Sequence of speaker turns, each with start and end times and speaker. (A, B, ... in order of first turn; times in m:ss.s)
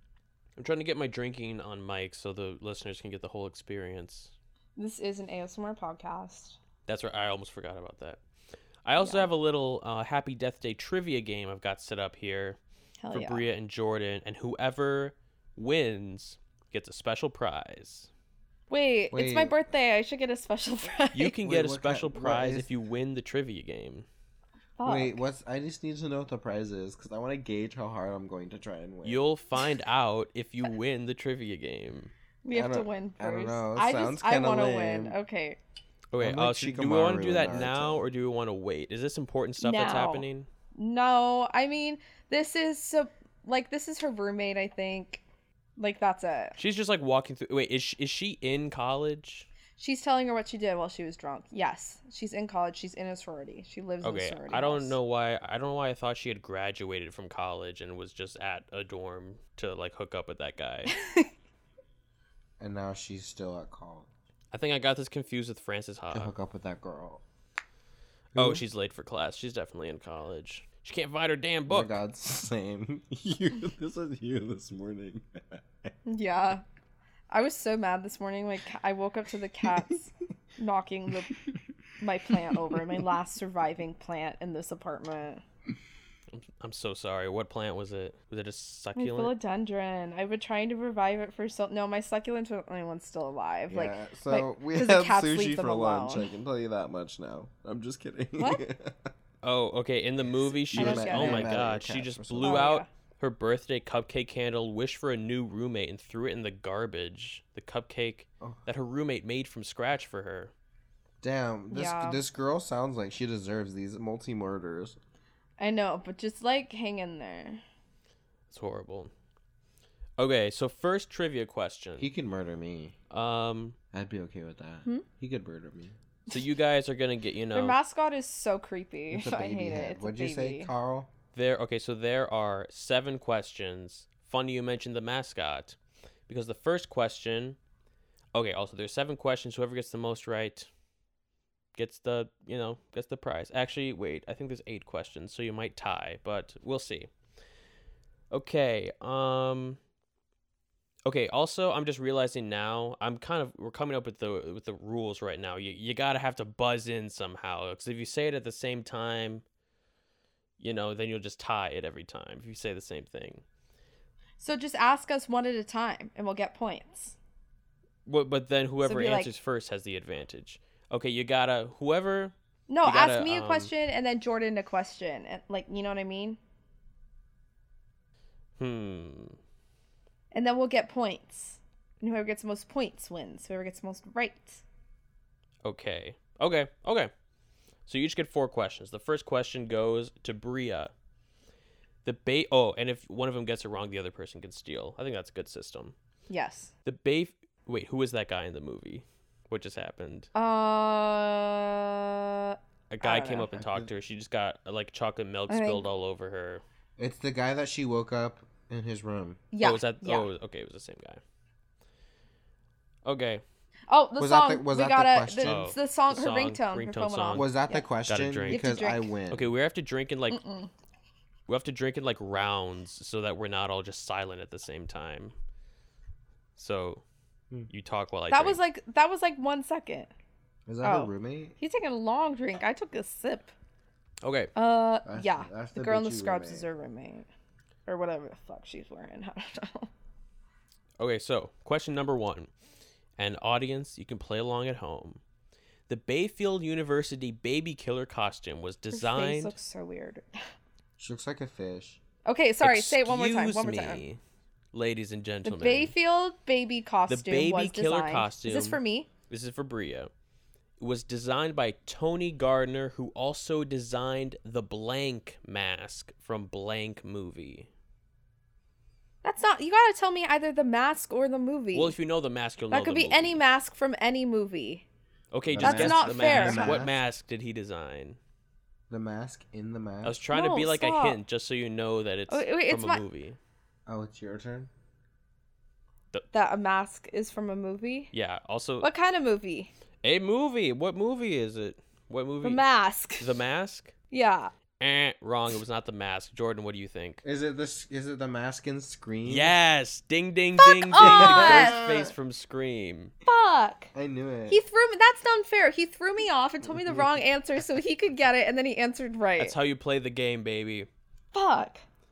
0:00.6-0:04.3 A
0:04.8-0:06.6 B
0:06.9-0:08.2 A
0:08.8-0:12.6 A
0:09.0-0:09.3 B
0:13.0-0:13.4 B
0:13.1-0:18.1 A
0:18.7-0:21.4 B
0:19.1-0:19.6 C
0:21.1-0:24.0 A
0:21.4-0:22.7 C
0:24.8-0:25.2 B
0:24.8-0:29.2 C
0:29.0-0:32.1 A
0:32.4-0:35.6 B
0:32.5-0:35.2 C
0:36.1-0:40.5 A
0:36.2-0:38.0 C
0:39.6-0:45.2 B
0:45.8-0:46.6 B
0:46.6-0:49.5 A
0:49.8-0:55.0 B
0:54.0-1:00.9 A
1:00.9-1:01.3 B
1:02.6-1:04.1 C
1:04.5-1:06.3 A
1:06.1-1:07.2 C
1:08.3-1:08.6 C
1:08.3-1:11.9 A
1:11.7-1:15.9 C
1:16.0-1:16.6 B
1:17.3-1:21.4 B
1:22.0-1:25.4 B
1:22.5-1:22.8 C
1:26.3-1:29.3 A
1:29.0-1:36.3 B
1:33.7-1:39.1 C
1:39.4-1:50.5 A
1:40.7-1:42.7 C
1:40.7-1:41.6 B
1:42.4-1:42.9 B
1:51.2-1:55.0 C
1:51.7-1:52.2 B
1:55.6-1:57.6 B
1:58.5-1:59.1 A
2:00.2-2:02.1 A
2:02.0-2:03.0 C
2:03.1-2:03.8 A
2:03.9-2:05.9 C
2:06.3-2:07.8 A
2:07.5-2:10.7 B
2:09.1-2:11.1 C
2:11.3-2:15.8 A
2:16.3-2:17.6 A
2:18.3-2:20.7 A
2:21.7-2:27.1 A
2:28.3-2:29.8 A
2:31.0-2:39.4 A
2:40.6-2:43.4 A
2:44.4-2:47.2 B
2:48.0-2:53.7 A
2:48.8-2:49.3 B
2:52.7-2:56.4 B
2:58.6-2:59.4 A
3:00.3-3:04.6 B
3:05.6-3:07.1 A
3:07.8-3:10.9 A
3:12.0-3:15.9 A
3:16.3-3:16.7 B
3:16.8-3:20.3 A
3:20.3-3:23.5 B
3:22.9-3:26.6 A
3:23.5-3:23.9 C
3:25.5-3:25.9 B
3:27.0-3:29.4 C
3:29.5-3:30.3 B
3:29.6-3:31.2 A
3:33.0-3:33.4 A
3:33.9-3:37.9 B
3:34.2-3:35.7 C
3:35.4-3:37.5 A
3:37.3-3:39.5 C
3:38.1-3:38.7 A
3:38.5-3:39.1 B
3:39.3-3:40.4 A
3:40.3-3:40.7 B
3:41.5-3:45.3 A
3:46.6-3:47.0 A
3:47.7-3:48.6 A
3:48.3-3:50.1 B
3:50.7-3:51.5 C
3:50.8-3:53.5 B
3:54.2-3:54.5 A
3:54.5-3:57.3 B
3:55.0-3:56.6 C
3:57.8-3:59.9 B
4:01.0-4:02.5 A
4:03.2-4:05.2 A
4:05.9-4:09.5 A
4:08.9-4:10.4 B
4:11.0-4:12.0 C
4:12.2-4:14.0 B
4:12.6-4:14.2 A
4:14.7-4:15.9 A
4:15.4-4:19.1 B
4:17.1-4:20.1 A
4:20.8-4:27.7 A
4:29.2-4:31.9 B
4:31.7-4:33.4 A
4:32.7-4:34.8 B
4:35.3-4:38.2 A
4:35.5-4:37.0 C
4:35.6-4:36.8 B
4:38.9-4:40.2 C
4:40.0-4:43.4 A
4:40.3-4:41.2 B
4:42.3-4:43.0 B
4:43.9-4:44.7 C
4:46.3-4:48.1 B
4:48.1-4:48.9 A
4:48.8-4:49.7 B
4:50.0-4:52.6 A
4:52.4-4:53.4 B
4:53.2-4:53.9 A
4:54.1-4:54.5 B
4:54.8-4:57.2 A
4:57.2-4:59.5 C
4:59.2-5:03.1 A
5:00.6-5:01.8 B
5:01.0-5:02.1 C
5:03.2-5:03.9 B
5:03.9-5:04.6 C
5:04.5-5:09.5 B
5:06.8-5:07.1 C
5:09.4-5:10.9 A
5:11.3-5:11.8 B